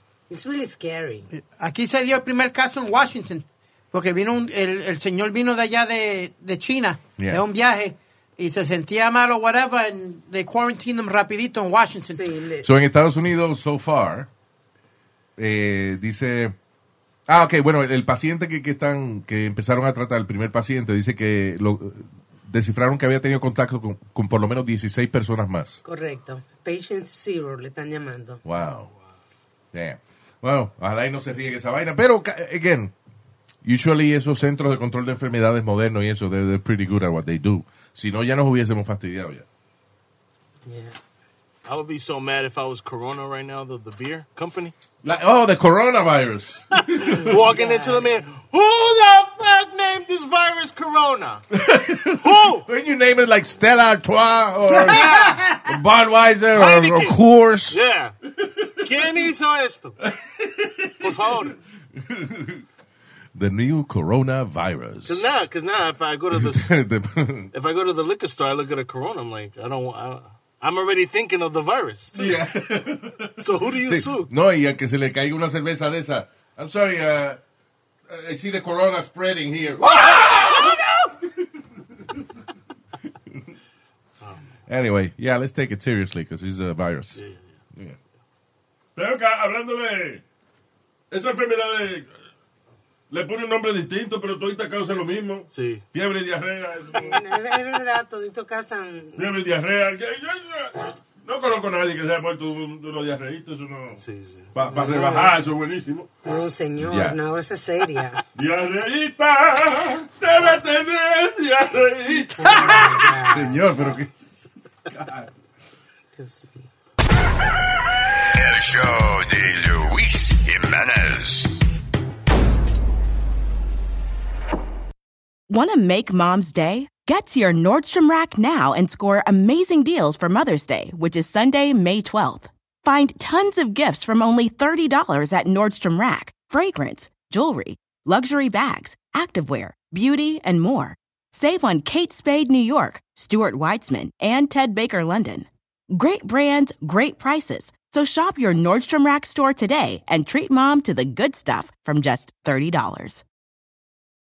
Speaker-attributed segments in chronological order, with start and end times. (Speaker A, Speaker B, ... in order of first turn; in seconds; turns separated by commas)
Speaker A: 0.3-1.3, Speaker B: 1.3-12.2, Speaker A: 12.1-12.7, Speaker C: 12.6-14.3, Speaker C: 15.4-16.6, Speaker C: 17.3-25.8, Speaker A: 25.9-28.4, Speaker C: 28.4-28.9, Speaker C: 29.7-32.9, Speaker C: 33.6-39.5, Speaker A: 40.6-41.0, Speaker D: 41.7-44.7, Speaker C: 45.0-47.4, Speaker D: 46.9-51.5, Speaker A: 47.0-48.3, Speaker C: 51.5-57.8, Speaker D: 52.0-52.6, Speaker D: 54.8-55.6, Speaker D: 56.5-58.1, Speaker D: 58.8-60.0, Speaker C: 60.4-61.1, Speaker D: 61.0-61.6, Speaker C: 62.0-62.6, Speaker C: 63.4-65.4, Speaker D: 65.0-66.7, Speaker C: 66.3-67.5, Speaker D: 67.5-72.5, Speaker C: 72.1-77.4, Speaker D: 73.4-74.3, Speaker C: 78.1-80.8, Speaker D: 80.0-80.7, Speaker D: 84.2-84.5, Speaker C: 84.7-87.2, Speaker D: 87.2-87.5, Speaker E: 89.0-90.2, Speaker E: 91.1-92.1, Speaker E: 93.1-97.2, Speaker D: 95.5-95.8, Speaker A: 97.0-99.3, Speaker E: 99.2-104.0, Speaker D: 103.9-104.9, Speaker C: 104.5-105.2, Speaker E: 104.7-106.1, Speaker A: 104.8-105.3, Speaker A: 106.2-108.2, Speaker C: 106.8-107.2, Speaker E: 108.4-112.6, Speaker A: 112.4-114.0, Speaker C: 112.5-114.1, Speaker C: 114.9-115.3, Speaker A: 116.2-116.7, Speaker F: 118.3-121.5, Speaker G: 125.5-153.2